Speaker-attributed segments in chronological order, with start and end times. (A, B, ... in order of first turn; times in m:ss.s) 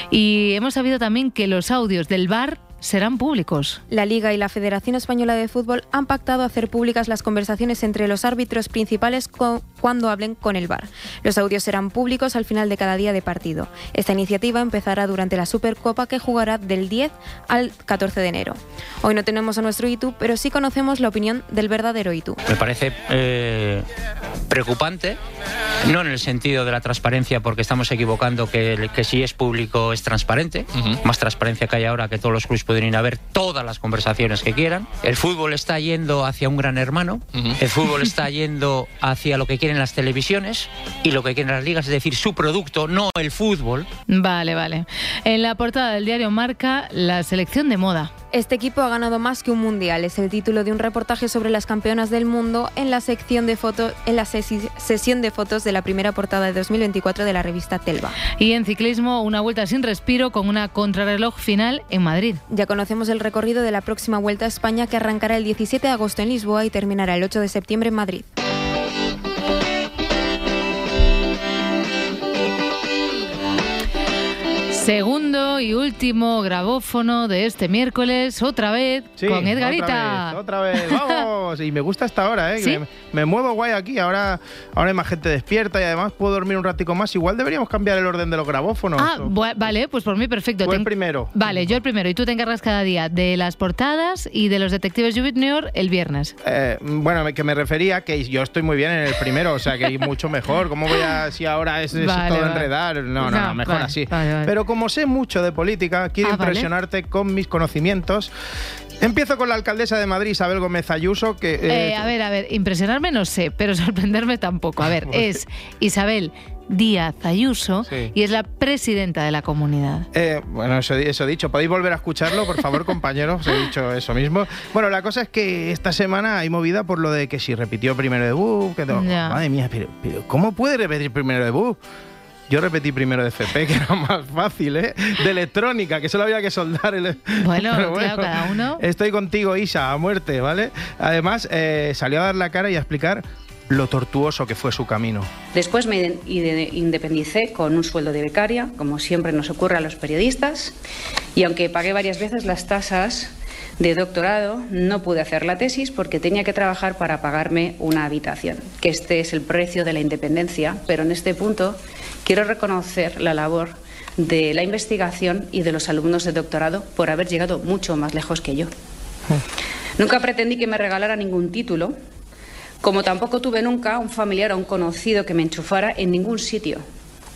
0:00.1-0:03.8 A
0:03.9-0:22.4 B
0:22.5-0:23.8 C
0:24.5-0:25.2 C
0:25.8-0:43.9 C
0:44.1-0:48.1 A
0:48.3-0:58.2 B
0:58.4-1:02.4 A
1:02.5-1:08.2 B
1:14.7-1:20.4 A
1:19.2-1:29.3 D
1:29.0-1:36.3 A
1:30.6-1:31.7 D
1:36.4-1:48.3 D
1:41.9-1:42.7 A
1:43.2-1:44.5 A
1:46.2-1:46.7 A
1:49.0-1:52.1 D
1:51.7-2:00.0 A
1:55.0-1:55.3 D
1:57.8-1:58.1 D
2:00.1-2:11.8 D
2:08.9-2:09.4 A
2:12.5-2:25.3 D
2:17.4-2:18.8 A
2:25.5-2:30.7 E
2:31.3-2:48.7 E
2:50.0-2:52.0 E
2:52.8-2:56.8 E